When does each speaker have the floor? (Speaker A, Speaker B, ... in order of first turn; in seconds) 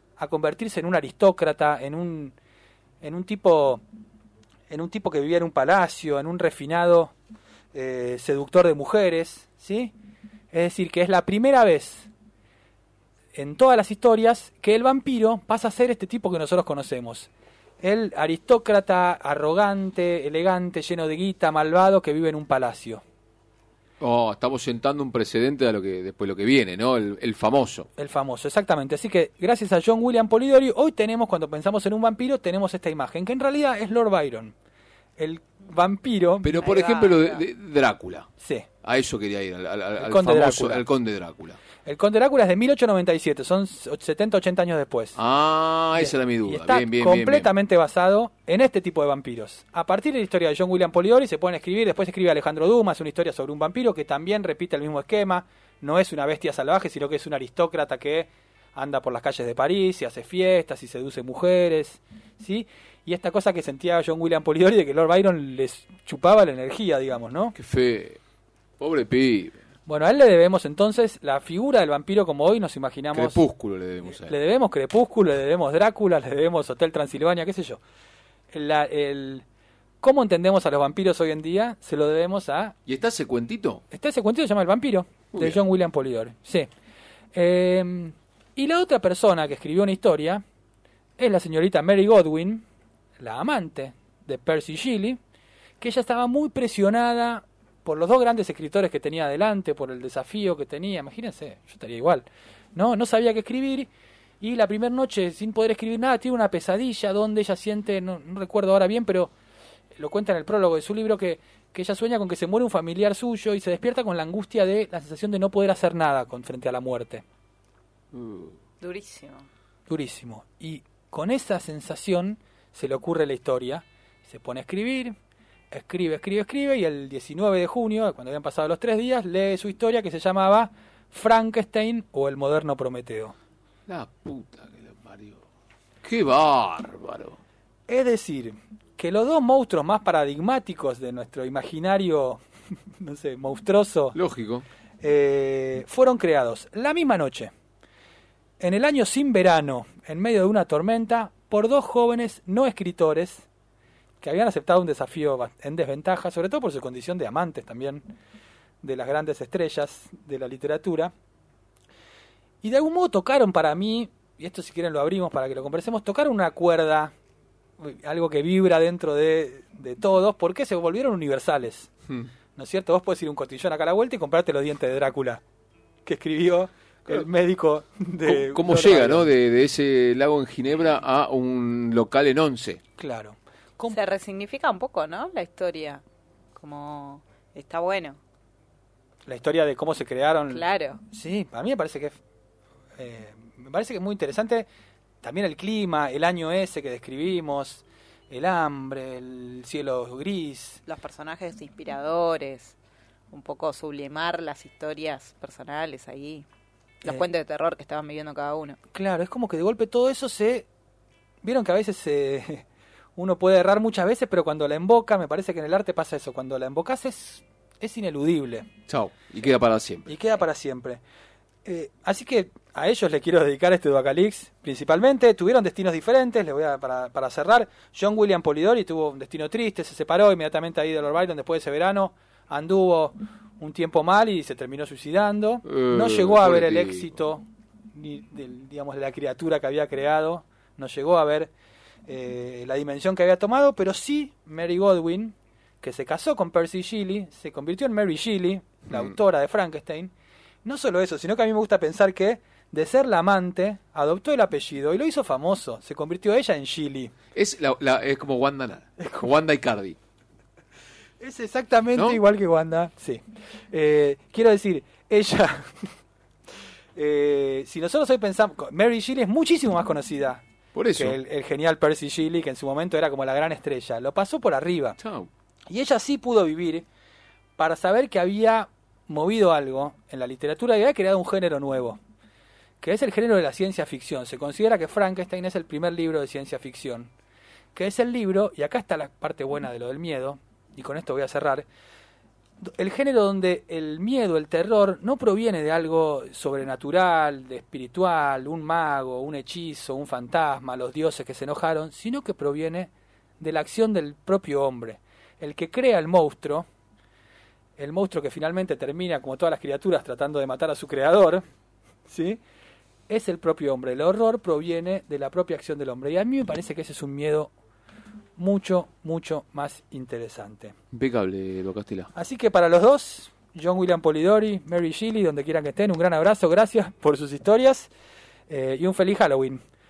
Speaker A: 0.2-2.4, 3.0-3.8, 4.7-7.1, 7.7-9.9, 10.5-12.1, 13.3-17.3, 17.8-23.0, 28.0-34.5, 35.2-36.6, 38.4-38.7, 40.0-40.9, 41.8-45.2, 45.9-67.5, 69.8-73.4, 74.0-77.8, 78.5-79.4, 80.0-82.7, 83.9-86.7, 87.3-90.4, 91.2-92.6, 93.2-95.2, 95.8-103.9, 104.4-109.3, 109.9-117.2, 119.9-125.1, 125.7-133.3, 137.9-142.4, 142.9-144.2, 145.0-147.5, 148.6-153.4, 154.2-158.0, 158.8-161.1, 162.6-167.1, 167.8-171.9, 172.5-175.4, 176.0-179.3, 183.0-184.0, 189.2-192.2, 193.0-194.7, 195.2-200.8, 208.9-210.7, 211.4-218.7, 220.1-221.0, 221.6-241.5, 242.1-250.1, 250.6-257.1, 259.0-259.2, 261.2-265.9, 266.9-275.0, 275.7-276.9, 277.6-282.0, 282.8-287.1, 287.7-291.6, 292.6-306.7, 307.8-311.4, 312.1-312.4, 313.1-317.5, 318.4-320.7, 322.1-327.9, 328.5-329.6
Speaker B: 24.0-27.9, 36.4-38.3, 38.8-41.6, 45.1-47.5, 67.5-68.2, 68.8-69.6, 73.1-74.3, 82.8-83.8, 85.3-85.6, 118.1-118.5, 133.9-135.4, 136.0-137.4, 144.1-144.6, 178.2-182.8, 218.9-220.2, 235.7-237.1, 257.3-259.9, 261.9-262.2, 270.7-271.2, 275.0-275.3, 320.9-322.1
Speaker C: 36.6-37.5, 118.8-119.5, 183.9-186.0, 186.5-188.2, 190.5-191.0, 200.8-202.8, 203.3-206.4, 207.0-208.8